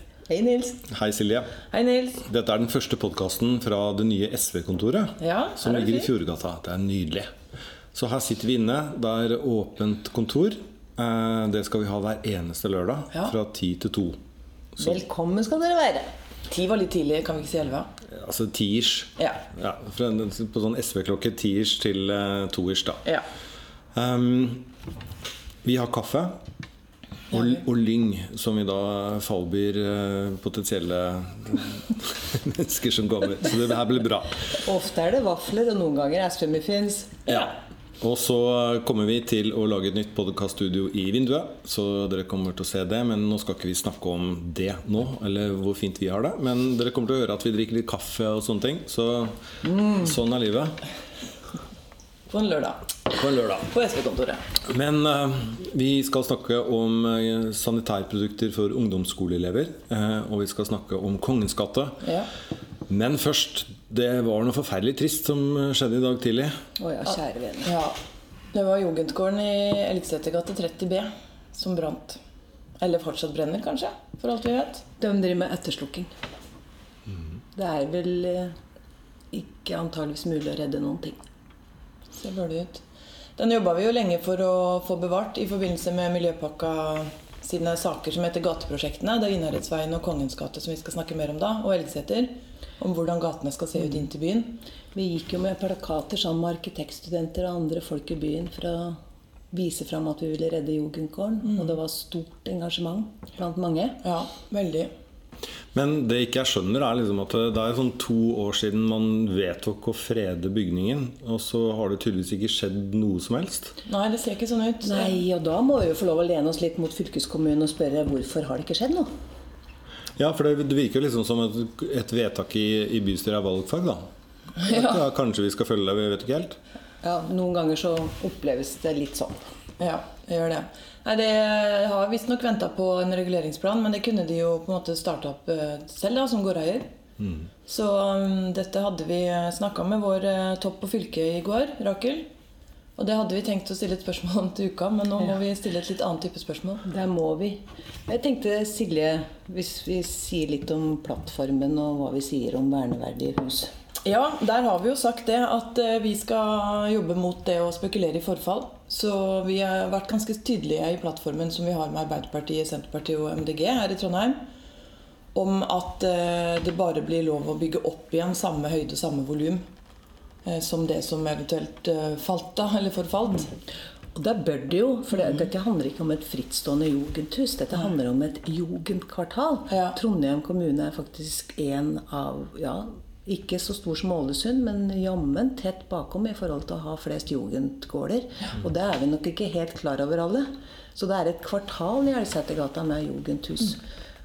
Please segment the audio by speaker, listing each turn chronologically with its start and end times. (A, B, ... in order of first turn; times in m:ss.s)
0:00.3-0:00.8 A
0:00.9-0:01.6 B
0:01.7-0:02.2 C
0:02.2-0:07.3 B
0:05.2-0:06.1 C
0:07.9-0:14.2 B
0:14.8-0:16.1 A
0:16.5-0:17.9 C
0:18.1-0:23.0 B
0:24.0-0:24.6 B
0:25.6-0:26.4 B
0:27.3-0:34.4 B
0:34.5-0:37.2 A
0:37.3-0:50.8 B
0:49.7-0:50.0 A
0:52.3-0:54.4 C
0:53.1-0:53.6 B
0:54.7-1:02.1 B
1:02.0-1:02.3 C
1:02.9-1:06.5 B
1:06.8-1:07.7 A
1:07.6-1:08.0 C
1:08.5-1:12.2 C
1:12.8-1:14.8 C
1:15.0-1:16.1 A
1:17.6-1:18.5 A
1:19.3-1:21.2 A
1:22.2-1:22.8 C
1:23.4-1:34.6 C
1:34.9-1:39.0 A
1:39.5-1:44.0 A
1:44.0-1:44.9 C
1:45.7-1:53.8 B
1:53.8-1:55.2 C
1:54.8-1:59.1 A
2:00.2-2:04.0 B
2:04.6-2:05.0 C
2:04.7-2:06.6 B
2:07.0-2:09.4 A
2:09.8-2:16.9 C
2:17.7-2:22.3 C
2:23.0-2:26.8 C
2:26.8-2:33.7 A
2:34.0-2:44.4 C
2:45.3-2:49.6 C
2:50.4-2:53.5 C
2:54.2-3:13.8 A
2:59.7-3:00.0 C